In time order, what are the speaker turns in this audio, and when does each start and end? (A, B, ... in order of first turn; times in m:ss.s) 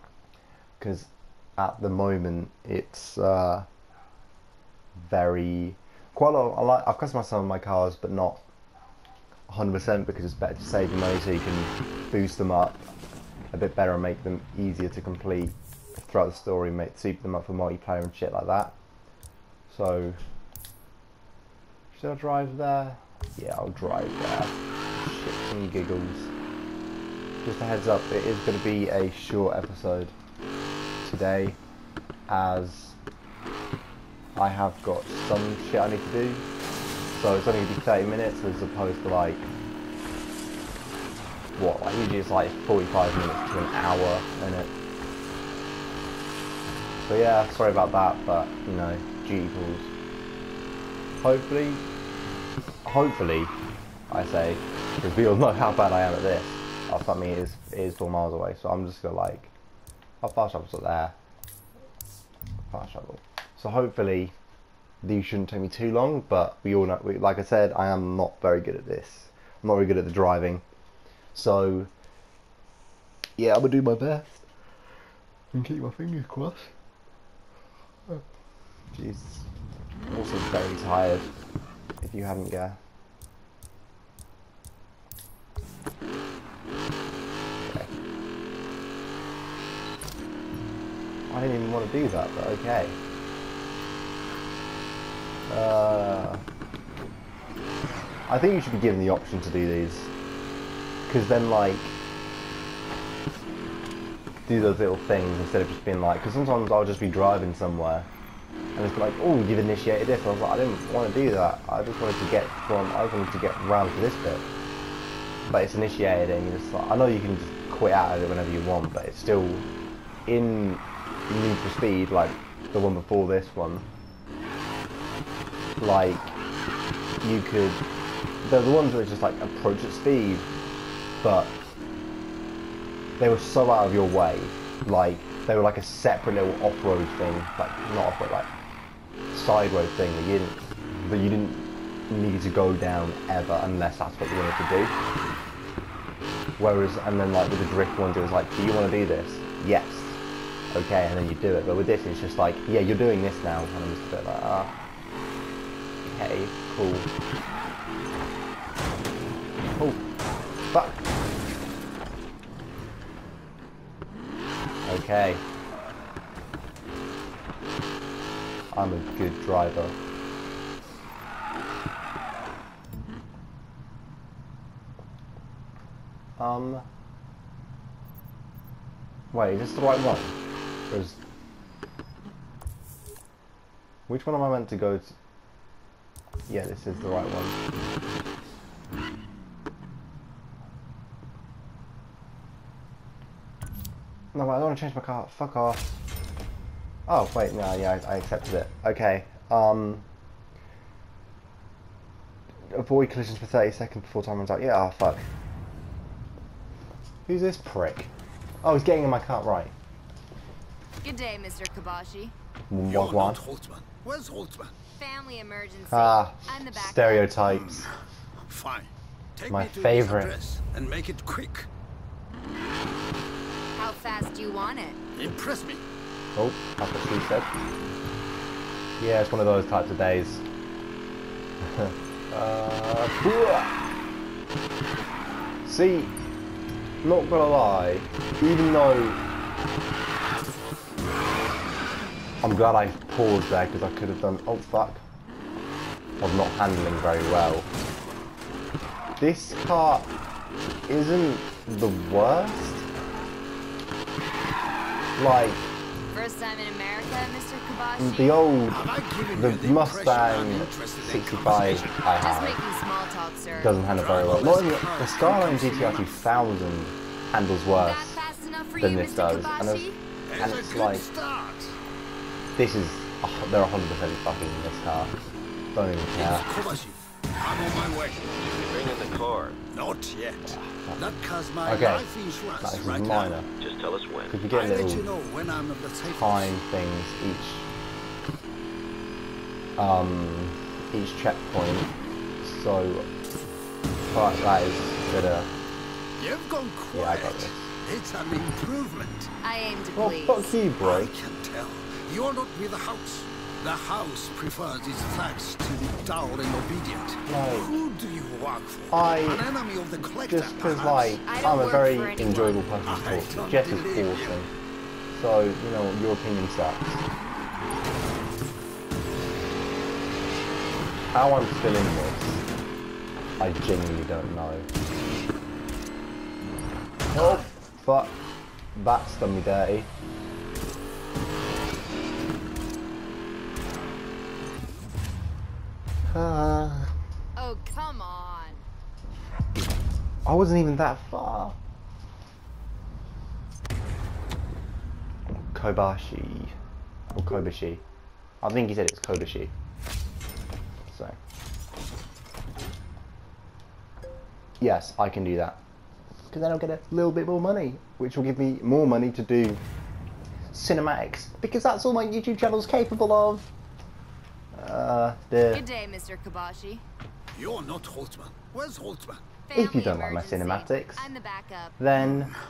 0:00.8-0:03.7 A
0:05.0-0:08.4 A
0:09.5-0:12.9 A
0:13.5-0:18.8 A
0:19.7-0:20.2 A
0:21.9-0:26.3 A
0:27.4-0:30.1 A
0:31.0-0:31.6 A
0:32.3-0:33.0 A
0:34.4-0:36.5 A
0:37.2-0:39.5 A
0:41.6-0:44.7 A
0:47.0-0:49.9 A
0:51.2-0:51.8 A
0:52.8-0:53.5 A
0:54.1-0:59.5 A
1:00.2-1:01.2 A
1:02.7-1:04.3 A
1:05.0-1:10.6 A
1:11.3-1:11.9 A
1:13.4-1:14.5 A
1:15.5-1:16.7 A
1:18.9-1:19.5 A
1:20.1-1:21.3 A
1:22.0-1:22.8 A
1:27.6-1:27.9 A
1:31.3-1:33.0 A
1:35.5-1:36.4 A
1:38.3-1:40.1 A
1:41.1-1:42.0 A
1:44.5-1:48.1 A
1:48.8-1:54.4 A
1:55.5-1:59.7 A
2:00.3-2:03.9 A
2:05.8-2:06.4 A
2:07.2-2:07.8 A
2:08.4-2:10.5 A
2:11.2-2:11.6 A
2:13.2-2:18.5 A
2:19.3-2:25.0 A
2:26.6-2:30.2 A
2:30.7-2:34.7 A
2:36.0-2:37.1 A
2:39.7-2:40.0 A
2:40.7-2:41.0 A
2:44.8-2:45.4 A
2:48.7-2:50.0 A
2:56.4-2:56.8 A
2:59.3-3:00.3 A
3:00.9-3:01.2 A
3:04.1-3:05.1 A
3:06.5-3:07.6 A
3:14.3-3:16.0 A
3:17.1-3:20.1 A
3:22.7-3:25.3 A
3:27.3-3:28.1 A
3:28.6-3:29.7 A
3:31.0-3:32.3 B
3:32.7-3:33.4 A
3:32.9-3:34.7 C
3:35.0-3:37.3 B
3:35.9-3:37.9 A
3:37.5-3:37.9 C
3:38.4-3:41.7 C
3:39.5-3:40.3 A
3:43.8-3:45.0 B
3:45.2-3:45.8 C
3:46.4-3:47.5 A
3:49.0-3:50.4 A
3:51.6-3:53.8 A
3:55.6-3:56.1 A
3:57.0-3:59.2 A
4:02.4-4:05.0 A
4:06.2-4:07.7 A
4:09.2-4:10.1 A
4:10.9-4:12.9 A
4:15.2-4:15.7 A
4:16.1-4:18.4 B
4:18.0-4:22.6 A
4:18.7-4:22.1 C
4:22.2-4:23.8 B
4:23.6-4:28.2 A
4:24.0-4:26.3 C
4:27.7-4:30.0 B
4:28.8-4:31.1 A
4:30.3-4:31.8 C
4:32.6-4:35.2 A
4:35.7-4:36.5 A
4:36.2-4:38.3 C
4:38.4-4:39.6 D
4:39.7-4:43.4 C
4:40.5-4:41.0 A
4:41.6-4:42.1 A
4:42.6-4:43.5 A
4:43.5-4:44.4 D
4:44.3-4:45.1 A
4:44.5-4:46.5 C
4:46.0-4:47.7 A
4:49.8-4:51.9 A
4:52.4-4:53.1 A
4:54.1-4:55.5 A
4:56.2-4:59.3 C
4:56.9-4:57.7 A
4:59.4-5:00.6 B
5:00.0-5:01.1 A
5:00.8-5:11.2 C
5:07.3-5:07.7 A
5:08.9-5:09.5 A
5:10.3-5:14.5 A
5:11.2-5:12.7 B
5:12.8-5:14.4 C
5:15.1-5:17.0 A
5:21.1-5:22.4 A
5:23.4-5:24.7 A
5:27.1-5:28.2 A
5:28.8-5:29.9 A
5:36.1-5:36.9 A
5:37.4-5:38.6 B
5:40.2-5:41.6 A
5:45.3-5:46.5 A
5:47.1-5:47.8 A
5:48.4-5:49.5 A
5:50.9-5:51.2 A
5:54.6-5:55.6 A
5:56.3-5:59.6 A
6:00.5-6:03.5 A
6:04.5-6:05.6 A
6:05.5-6:06.8 B
6:07.3-6:09.2 C
6:09.5-6:11.8 B
6:09.5-6:11.0 A
6:11.8-6:12.3 A